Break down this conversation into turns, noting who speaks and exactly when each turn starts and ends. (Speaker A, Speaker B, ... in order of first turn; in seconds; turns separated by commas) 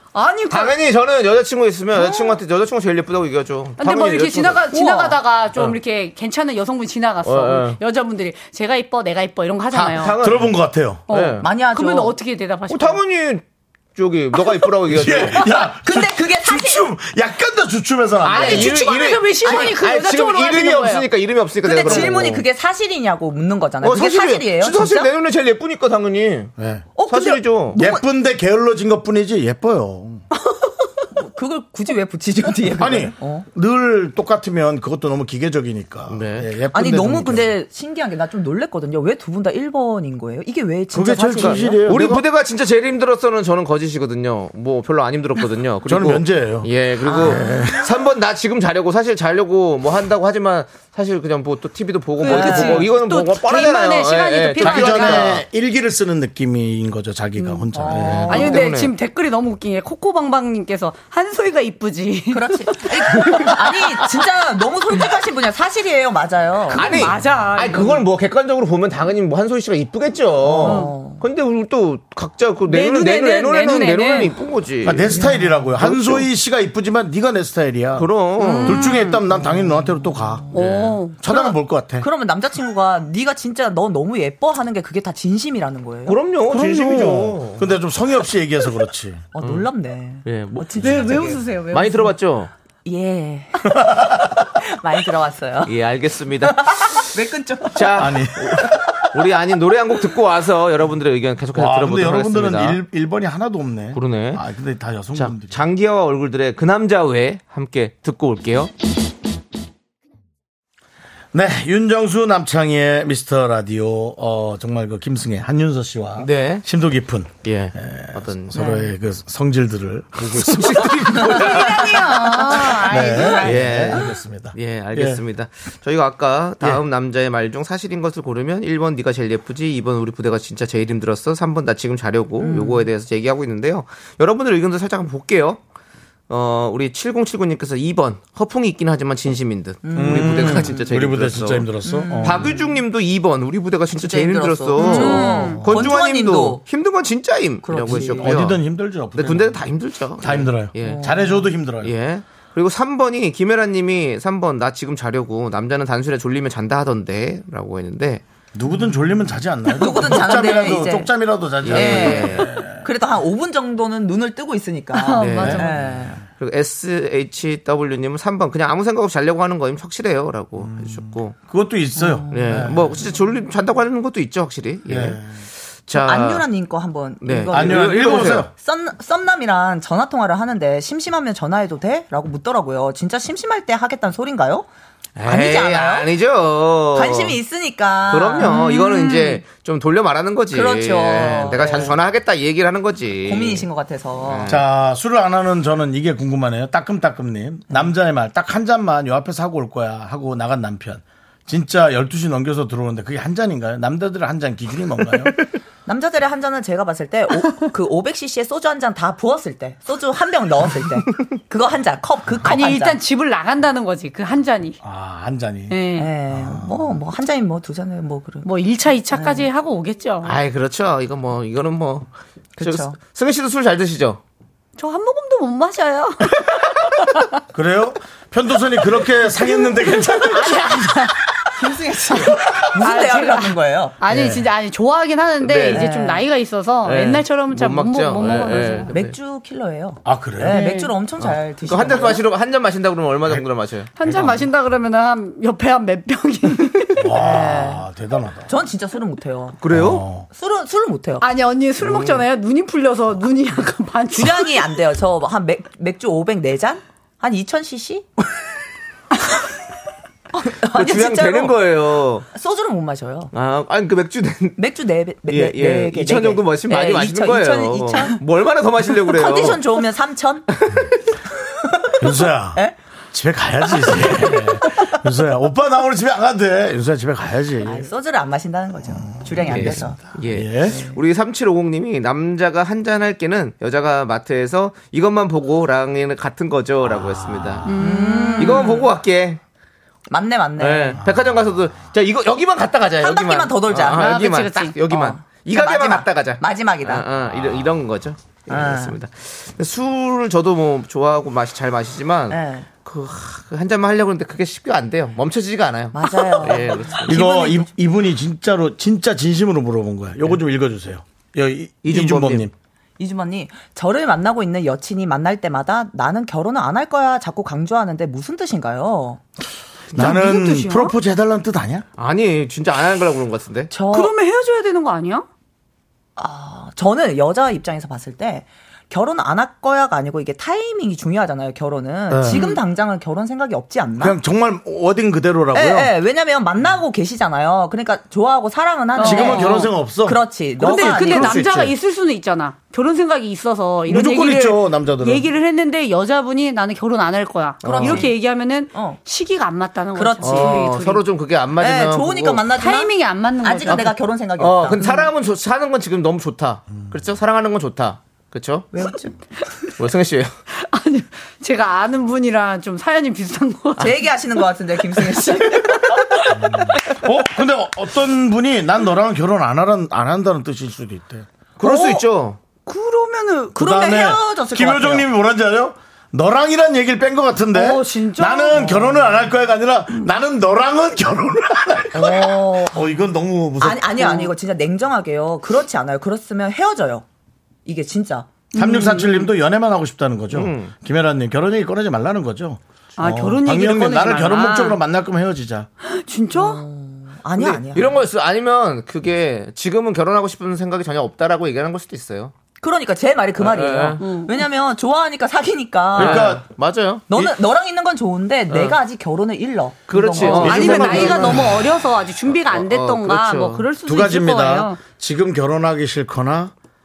Speaker A: 0.1-0.8, Speaker B: 0.5-4.7, Speaker C: 1.9-2.4, Speaker A: 3.8-10.2, Speaker C: 4.7-5.2, Speaker B: 7.2-7.8, Speaker B: 9.7-10.6, Speaker D: 10.2-11.0, Speaker B: 11.1-11.4, Speaker A: 11.1-13.0, Speaker C: 11.4-12.1, Speaker B: 12.7-13.4, Speaker B: 13.9-15.5, Speaker D: 14.8-18.7, Speaker C: 15.6-16.9, Speaker B: 18.2-22.4, Speaker A: 18.3-21.1, Speaker C: 19.4-19.8, Speaker C: 21.6-25.1, Speaker B: 23.8-26.5, Speaker D: 26.6-26.9, Speaker C: 26.9-28.0, Speaker B: 27.1-27.8, Speaker D: 27.7-30.2, Speaker C: 31.1-33.5, Speaker D: 32.8-37.5, Speaker B: 36.1-36.5, Speaker C: 36.7-41.9, Speaker D: 40.9-42.2, Speaker B: 41.3-55.4, Speaker D: 45.9-47.9, Speaker C: 47.0-47.7, Speaker A: 52.2-55.3, Speaker C: 52.3-52.8, Speaker D: 54.6-58.5, Speaker C: 57.7-58.7, Speaker B: 58.0-58.9, Speaker A: 58.2-63.5, Speaker C: 62.3-67.1, Speaker B: 63.1-63.5, Speaker B: 66.7-76.3, Speaker A: 66.8-68.0, Speaker C: 70.4-71.2, Speaker A: 70.6-70.9, Speaker A: 72.7-74.3, Speaker D: 74.8-78.1, Speaker C: 75.1-75.7, Speaker B: 78.0-78.8, Speaker A: 78.4-79.2, Speaker D: 78.6-80.5, Speaker C: 79.3-80.5, Speaker A: 80.5-81.5, Speaker B: 80.5-81.0, Speaker D: 81.2-82.1, Speaker C: 81.3-86.2, Speaker B: 86.1-87.7, Speaker D: 86.5-89.3, Speaker C: 89.3-91.5, Speaker B: 89.4-89.7, Speaker B: 90.2-92.5, Speaker A: 90.8-92.2, Speaker C: 92.8-93.9, Speaker D: 93.7-94.3, Speaker C: 94.6-95.7, Speaker B: 95.6-97.0, Speaker C: 96.4-98.0, Speaker B: 97.7-102.8, Speaker D: 97.9-98.8, Speaker D: 101.5-105.6, Speaker B: 103.9-104.4, Speaker B: 105.1-108.7, Speaker D: 111.3-125.2, Speaker B: 116.2-116.6, Speaker B: 117.4-118.7, Speaker C: 118.5-118.9, Speaker B: 120.2-121.8, Speaker C: 121.1-123.8, Speaker A: 121.3-123.5, Speaker B: 123.3-135.6, Speaker C: 132.4-132.9, Speaker B: 136.3-148.6, Speaker C: 139.8-140.8, Speaker D: 139.9-142.5, Speaker C: 141.8-142.6, Speaker C: 143.9-146.6, Speaker A: 144.8-145.7, Speaker D: 145.6-145.8, Speaker C: 147.6-148.4, Speaker D: 147.8-149.6, Speaker B: 149.2-158.2, Speaker D: 150.2-151.9, Speaker C: 150.8-151.4, Speaker D: 158.5-162.8, Speaker C: 159.8-161.1, Speaker B: 161.6-162.6, Speaker C: 161.6-166.2, Speaker A: 164.9-165.8, Speaker B: 165.2-171.3, Speaker D: 165.4-166.1, Speaker D: 170.6-173.0, Speaker C: 172.0-173.0, Speaker B: 172.3-175.2, Speaker D: 174.9-175.3, Speaker B: 175.8-176.4, Speaker C: 175.9-184.7, Speaker B: 177.2-178.5, Speaker D: 177.5-178.5, Speaker B: 185.2-187.4, Speaker C: 185.2-186.1, Speaker C: 186.9-189.1, Speaker B: 188.1-193.7, Speaker A: 188.4-189.4, Speaker C: 190.5-191.9, Speaker C: 193.2-194.5, Speaker B: 194.2-194.6, Speaker D: 194.5-205.3, Speaker C: 205.8-213.0, Speaker A: 212.4-214.8, Speaker D: 214.8-215.8, Speaker A: 215.7-216.1, Speaker C: 215.9-218.5, Speaker D: 216.3-217.0, Speaker A: 218.4-220.4, Speaker C: 219.1-219.5, Speaker B: 220.2-222.1, Speaker C: 222.6-223.0, Speaker B: 222.6-224.2, Speaker A: 224.8-226.6, Speaker D: 227.5-230.9, Speaker A: 229.9-231.2, Speaker C: 231.6-234.0, Speaker A: 232.7-238.9, Speaker D: 234.0-234.5, Speaker B: 235.4-235.9, Speaker C: 235.7-236.2, Speaker B: 236.8-239.2, Speaker C: 238.5-242.2, Speaker D: 240.0-240.6, Speaker A: 240.4-240.9, Speaker B: 241.2-243.9, Speaker A: 244.0-247.2, Speaker D: 244.0-244.4, Speaker D: 247.0-248.5, Speaker C: 247.1-247.8, Speaker C: 248.5-249.6, Speaker B: 249.6-250.1, Speaker D: 249.7-250.3, Speaker C: 250.3-251.2, Speaker A: 251.2-254.8, Speaker C: 254.1-258.1, Speaker C: 260.3-261.6, Speaker B: 260.7-262.3, Speaker C: 262.3-263.3, Speaker B: 263.3-264.6, Speaker C: 264.6-268.2, Speaker B: 265.3-269.6, Speaker C: 269.0-270.5, Speaker B: 270.5-270.9, Speaker C: 271.6-272.8, Speaker D: 272.0-277.9, Speaker C: 273.7-274.9, Speaker C: 277.6-280.0, Speaker D: 278.9-280.8, Speaker B: 279.4-287.7, Speaker C: 280.7-281.0, Speaker D: 287.0-287.7, Speaker A: 287.6-288.9, Speaker C: 287.7-288.9, Speaker B: 288.4-289.4, Speaker C: 290.1-291.0, Speaker B: 290.6-307.3, Speaker D: 291.0-291.3, Speaker C: 293.0-297.1, Speaker A: 293.9-294.8, Speaker C: 298.5-299.0, Speaker C: 302.3-302.7, Speaker C: 305.9-307.7, Speaker D: 307.0-312.5, Speaker B: 311.8-312.5, Speaker C: 313.0-319.2, Speaker D: 319.9-321.9, Speaker A: 319.9-320.9, Speaker B: 322.0-323.7, Speaker C: 323.7-324.1, Speaker A: 323.9-325.3, Speaker C: 326.2-334.2, Speaker D: 332.1-332.4, Speaker A: 332.2-332.6, Speaker D: 334.0-335.9, Speaker C: 335.5-341.6, Speaker A: 338.9-339.7, Speaker D: 339.0-341.7, Speaker A: 340.6-351.1, Speaker D: 343.9-345.3, Speaker C: 347.6-349.0, Speaker B: 347.6-348.1, Speaker C: 349.9-350.7, Speaker B: 350.2-352.4, Speaker C: 351.6-355.0, Speaker A: 352.5-353.9, Speaker B: 354.4-358.7, Speaker A: 354.8-355.1, Speaker C: 358.7-359.1, Speaker B: 359.8-360.3, Speaker A: 360.5-365.2, Speaker C: 363.8-366.7, Speaker D: 366.3-371.2, Speaker B: 371.6-372.4, Speaker A: 371.6-372.0, Speaker A: 372.6-373.7, Speaker C: 373.5-375.1, Speaker D: 373.5-384.2, Speaker A: 377.5-379.1, Speaker C: 378.5-379.1, Speaker C: 381.9-383.0, Speaker C: 383.6-387.0, Speaker C: 387.6-388.4, Speaker A: 388.5-389.3, Speaker D: 388.5-395.7, Speaker B: 390.3-390.7, Speaker A: 393.0-394.8, Speaker A: 395.8-396.6, Speaker C: 396.3-398.0, Speaker B: 397.4-402.3, Speaker C: 402.6-406.4, Speaker B: 403.4-404.0, Speaker A: 404.0-404.5, Speaker D: 405.9-406.5, Speaker B: 405.9-407.0, Speaker C: 407.1-411.2, Speaker D: 407.1-407.4, Speaker B: 408.5-408.8, Speaker B: 409.9-411.4, Speaker A: 410.1-414.8, Speaker D: 410.4-411.6, Speaker B: 412.5-413.7, Speaker D: 413.8-416.5